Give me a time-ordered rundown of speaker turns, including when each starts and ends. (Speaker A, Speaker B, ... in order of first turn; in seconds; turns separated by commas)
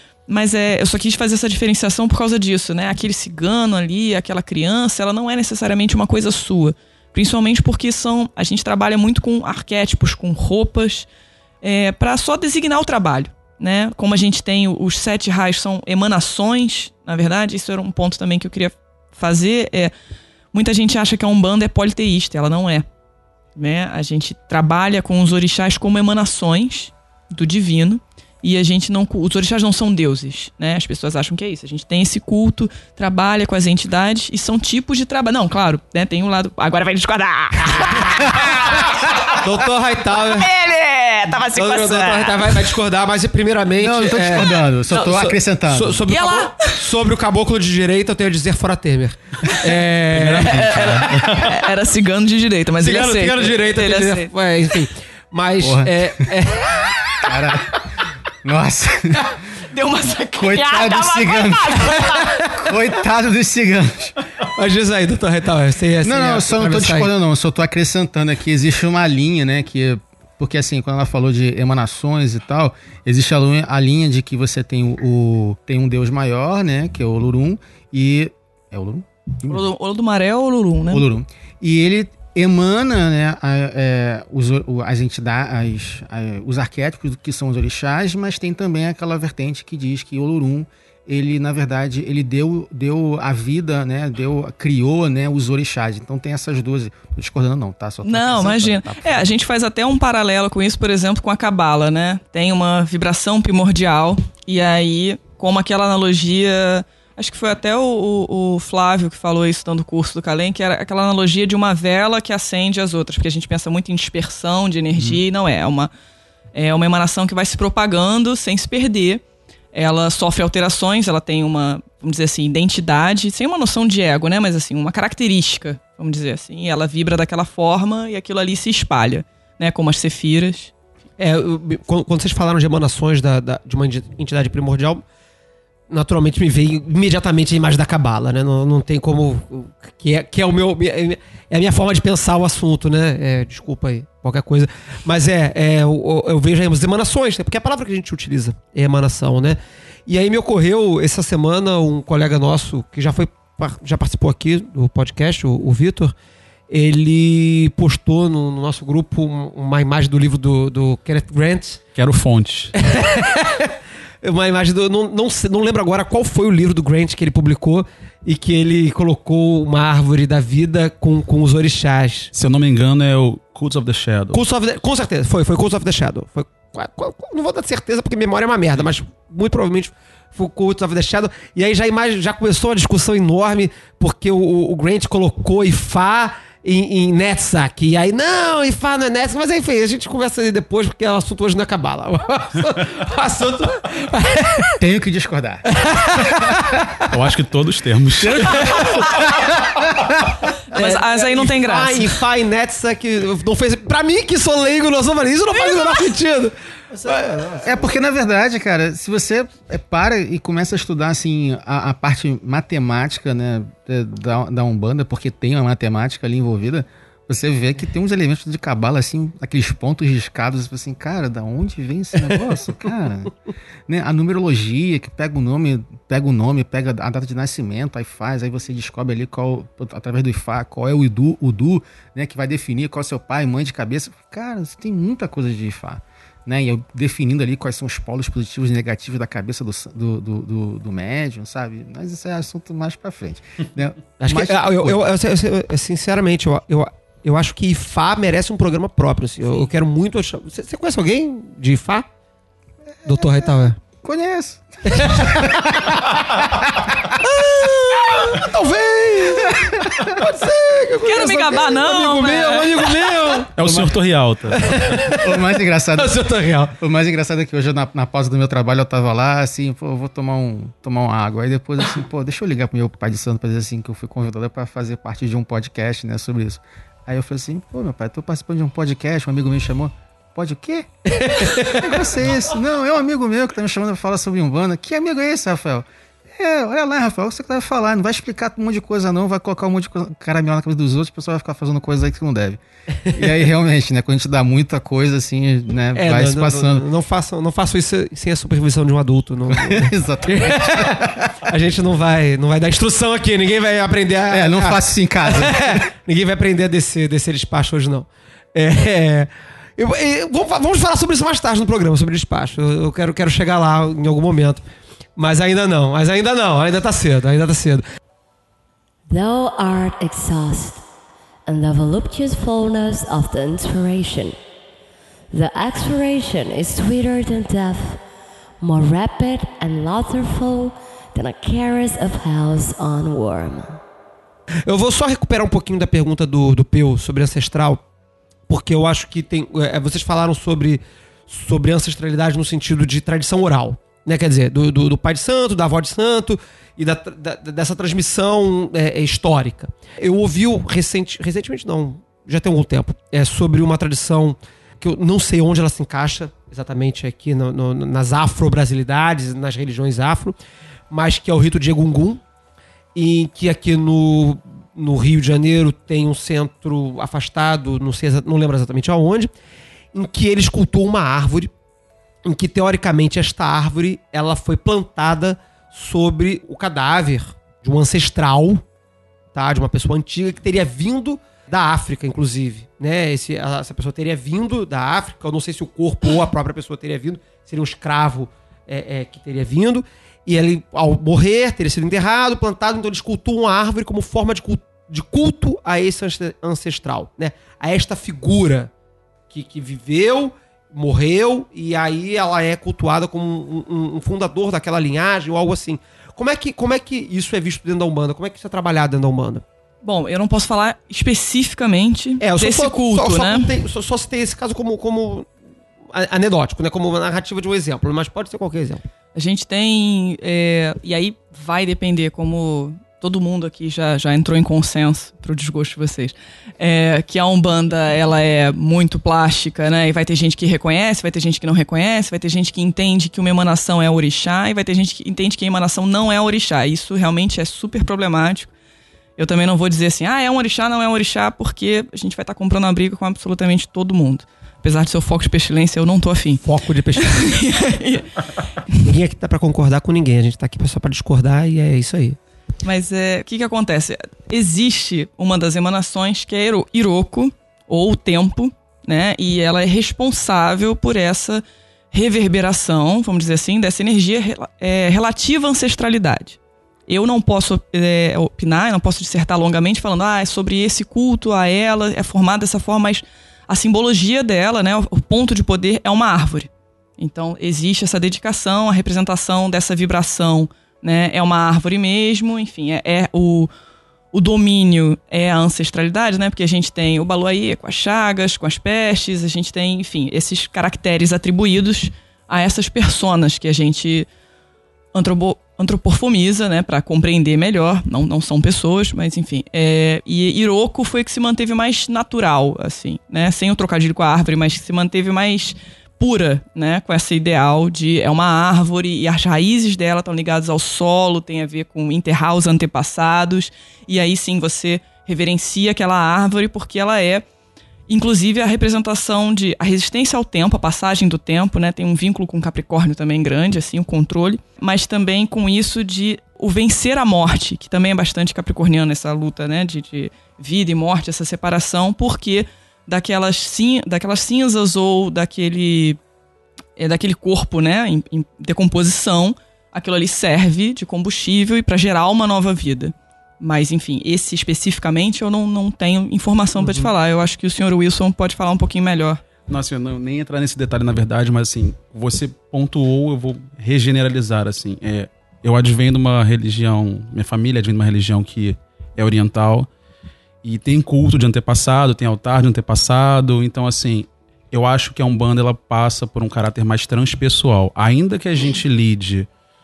Speaker A: 0.3-11.1, Speaker A: 11.6-19.9, Speaker A: 20.5-22.9, Speaker A: 23.6-38.9, Speaker B: 39.4-40.5, Speaker A: 40.1-42.8, Speaker B: 41.5-50.8, Speaker C: 43.8-46.0, Speaker A: 46.0-46.8, Speaker D: 50.1-51.5, Speaker A: 50.3-54.3, Speaker B: 52.8-57.2, Speaker C: 55.6-55.9, Speaker C: 57.2-57.8, Speaker C: 58.4-59.3, Speaker A: 59.7-62.3, Speaker C: 60.3-64.1, Speaker B: 62.1-62.7, Speaker B: 64.5-67.1, Speaker C: 66.0-79.7, Speaker A: 79.5-81.1, Speaker C: 80.9-99.3, Speaker A: 98.0-115.9, Speaker C: 115.0-115.2, Speaker A: 116.5-119.2, Speaker A: 119.7-130.7, Speaker B: 131.2-135.0, Speaker B: 135.9-156.1, Speaker B: 156.7-161.8, Speaker D: 161.9-162.7, Speaker B: 162.7-172.3, Speaker D: 172.3-174.4, Speaker B: 174.3-194.8, Speaker C: 194.8-195.6, Speaker B: 195.7-196.6, Speaker D: 197.1-198.8, Speaker C: 198.2-200.3, Speaker B: 198.5-199.1, Speaker A: 200.7-202.2, Speaker B: 200.7-207.9, Speaker C: 207.6-223.3, Speaker C: 223.9-245.0, Speaker B: 244.2-252.0, Speaker B: 253.0-253.8, Speaker C: 253.9-256.3, Speaker B: 254.8-255.6, Speaker B: 257.2-263.9, Speaker C: 259.5-260.1, Speaker A: 261.0-263.2, Speaker D: 263.5-264.6, Speaker B: 264.5-266.7, Speaker C: 265.2-266.2, Speaker C: 266.8-292.6, Speaker B: 281.1-281.9, Speaker C: 293.1-296.8, Speaker B: 295.9-314.6, Speaker C: 299.5-301.1, Speaker C: 304.3-305.8, Speaker B: 315.1-317.8, Speaker E: 319.1-320.8, Speaker E: 321.4-324.4, Speaker E: 325.3-328.0, Speaker E: 328.6-333.8, Speaker B: 334.6-337.8, Speaker B: 338.5-360.4, Speaker B: 360.9-362.2, Speaker B: 362.9-369.3, Speaker B: 369.9-371.5, Speaker B: 372.2-378.6, Speaker B: 379.3-398.7, Speaker B: 399.3-409.4, Speaker A: 409.8-413.5, Speaker B: 412.2-415.3, Speaker B: 415.9-418.8, Speaker A: 419.1-438.5, Speaker A: 439.2-446.4, Speaker B: 446.4-447.4, Speaker A: 446.9-448.1, Speaker B: 448.8-452.2, Speaker A: 452.6-483.5, Speaker A: 484.1-494.1, Speaker A: 494.9-517.2, Speaker A: 517.9-536.0, Speaker A: 536.8-549.2, Speaker D: 549.5-559.7, Speaker D: 560.4-569.3